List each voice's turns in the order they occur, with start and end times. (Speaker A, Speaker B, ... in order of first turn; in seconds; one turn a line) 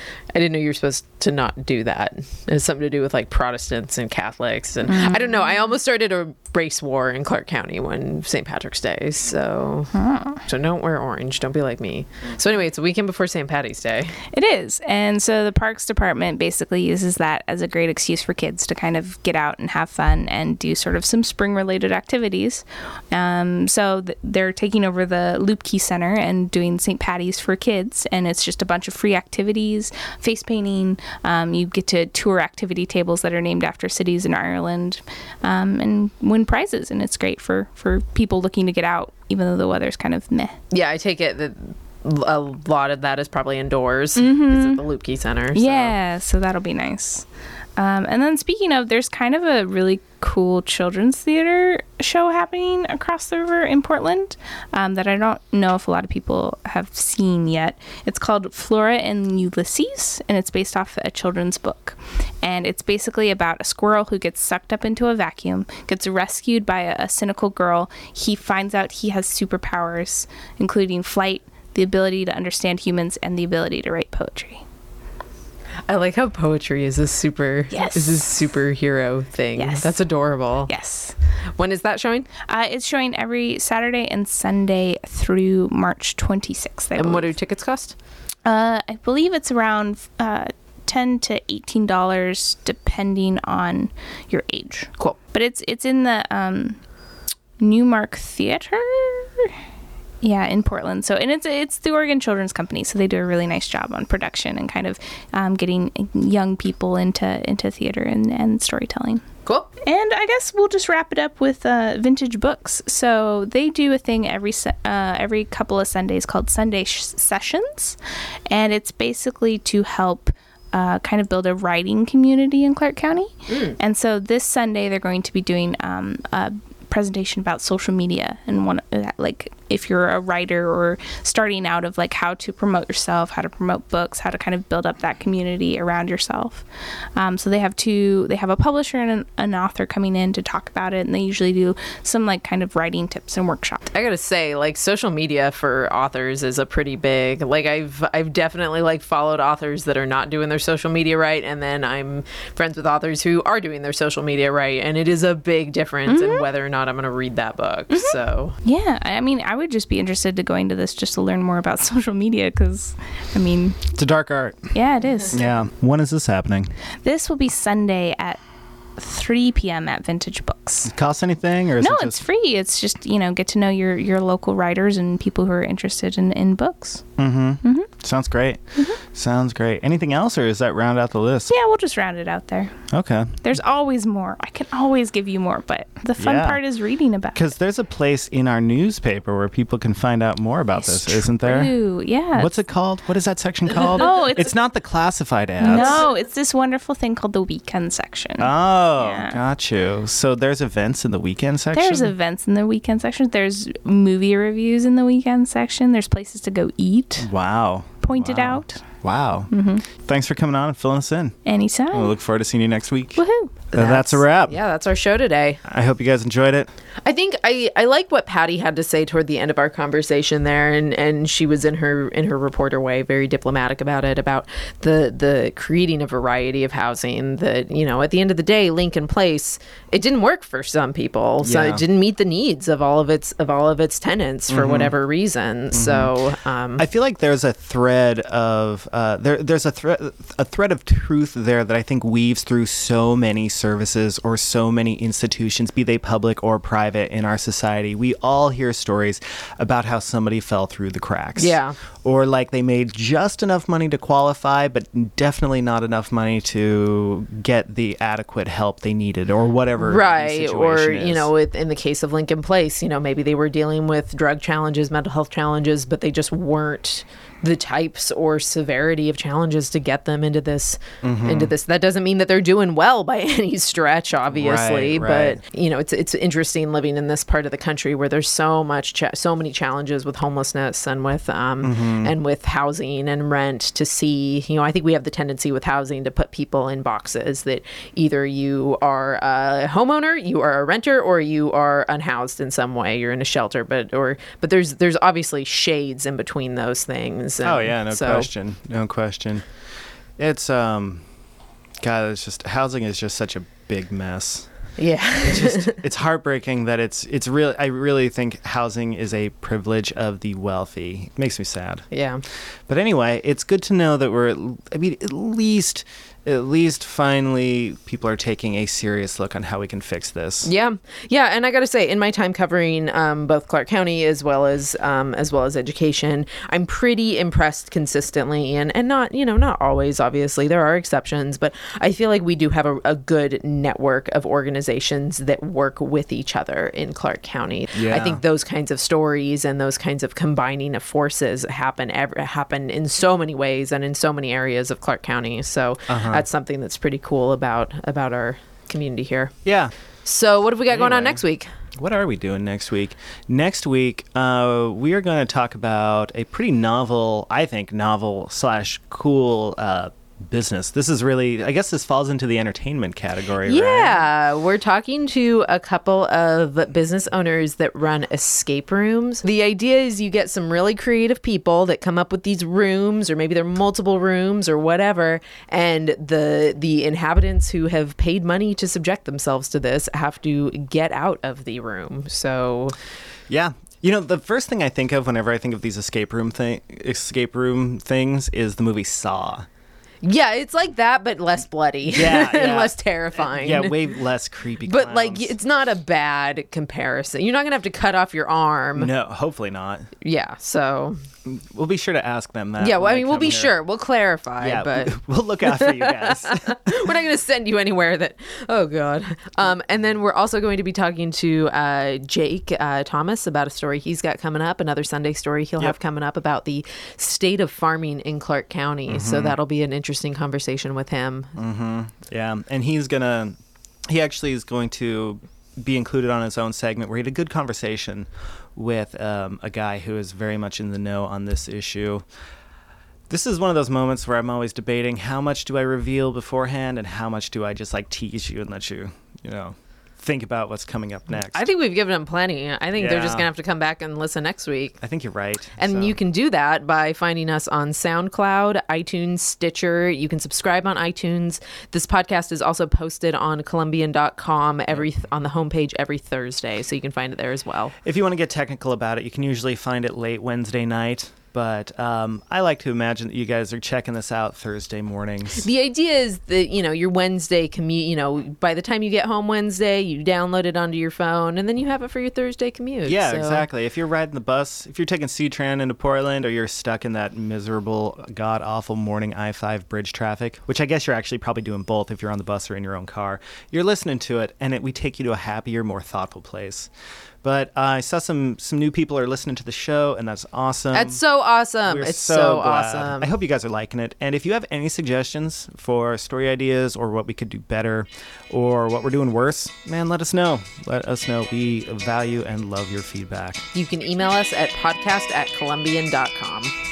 Speaker A: 0.3-9.9
Speaker B: 4.9-5.4
Speaker B: 9.9-10.4
Speaker A: 10.5-14.2
Speaker B: 14.3-40.6
Speaker A: 40.7-45.9
Speaker B: 44.2-44.9
Speaker B: 45.5-74.6
Speaker A: 75.9-80.7
Speaker B: 77.7-78.2
Speaker B: 79.6-80.0
Speaker B: 80.7-81.2
Speaker A: 81.6-82.3
Speaker B: 82.5-87.3
Speaker A: 87.0-88.0
Speaker B: 88.5-96.9
Speaker B: 97.6-99.5
Speaker B: 100.2-109.2
Speaker B: 109.9-118.0
Speaker B: 118.5-143.8
Speaker A: 123.5-123.8
Speaker A: 143.9-158.6
Speaker B: 156.1-156.5
Speaker B: 157.9-163.9
Speaker C: 163.9-164.8
Speaker B: 164.7-165.4
Speaker C: 165.3-166.8
Speaker B: 167.0-168.4
Speaker B: 169.0-170.9
Speaker C: 170.9-172.2
Speaker B: 171.8-177.9
Speaker C: 177.2-181.5
Speaker B: 181.5-182.9
Speaker C: 182.9-183.4
Speaker B: 183.4-187.5
Speaker C: 186.2-186.6
Speaker C: 187.3-191.7
Speaker B: 190.8-192.6
Speaker C: 192.4-196.0
Speaker B: 194.0-194.6
Speaker B: 195.6-199.4
Speaker C: 198.4-202.1
Speaker B: 201.7-207.3
Speaker C: 207.2-211.4
Speaker B: 208.0-208.8
Speaker B: 209.5-209.9
Speaker B: 211.5-212.2
Speaker C: 211.9-214.6
Speaker B: 213.2-213.6
Speaker A: 213.7-215.6
Speaker C: 215.7-216.7
Speaker A: 217.0-236.8
Speaker C: 231.4-231.8
Speaker C: 234.5-234.9
Speaker C: 235.7-236.1
Speaker C: 236.8-261.3
Speaker A: 251.4-251.8
Speaker A: 259.8-298.3
Speaker C: 271.0-271.5
Speaker C: 274.3-275.4
Speaker C: 281.6-282.1
Speaker C: 297.4-299.5
Speaker C: 300.2-301.1
Speaker C: 301.8-304.5
Speaker A: 304.8-305.8
Speaker C: 305.2-311.9
Speaker A: 311.9-312.2
Speaker C: 312.7-320.5
Speaker A: 320.4-349.4
Speaker C: 337.7-338.2
Speaker C: 345.9-346.2
Speaker C: 349.4-349.7
Speaker A: 350.1-351.5
Speaker C: 350.7-351.2
Speaker C: 351.8-364.1
Speaker A: 363.4-382.8
Speaker C: 383.3-389.5
Speaker A: 390.0-394.0
Speaker C: 391.9-395.3
Speaker A: 394.6-398.9
Speaker C: 398.8-399.9
Speaker A: 400.0-401.0
Speaker C: 401.3-403.5
Speaker A: 402.6-421.3
Speaker C: 404.4-406.8
Speaker C: 418.9-419.4
Speaker C: 421.4-432.1
Speaker C: 433.1-441.5
Speaker A: 441.3-444.8
Speaker C: 442.8-443.3
Speaker C: 444.8-446.0
Speaker A: 445.6-457.7
Speaker C: 457.8-465.5
Speaker A: 465.4-473.4
Speaker C: 472.8-486.7
Speaker C: 487.2-491.0
Speaker A: 490.7-493.1
Speaker C: 491.6-503.5
Speaker A: 503.5-506.5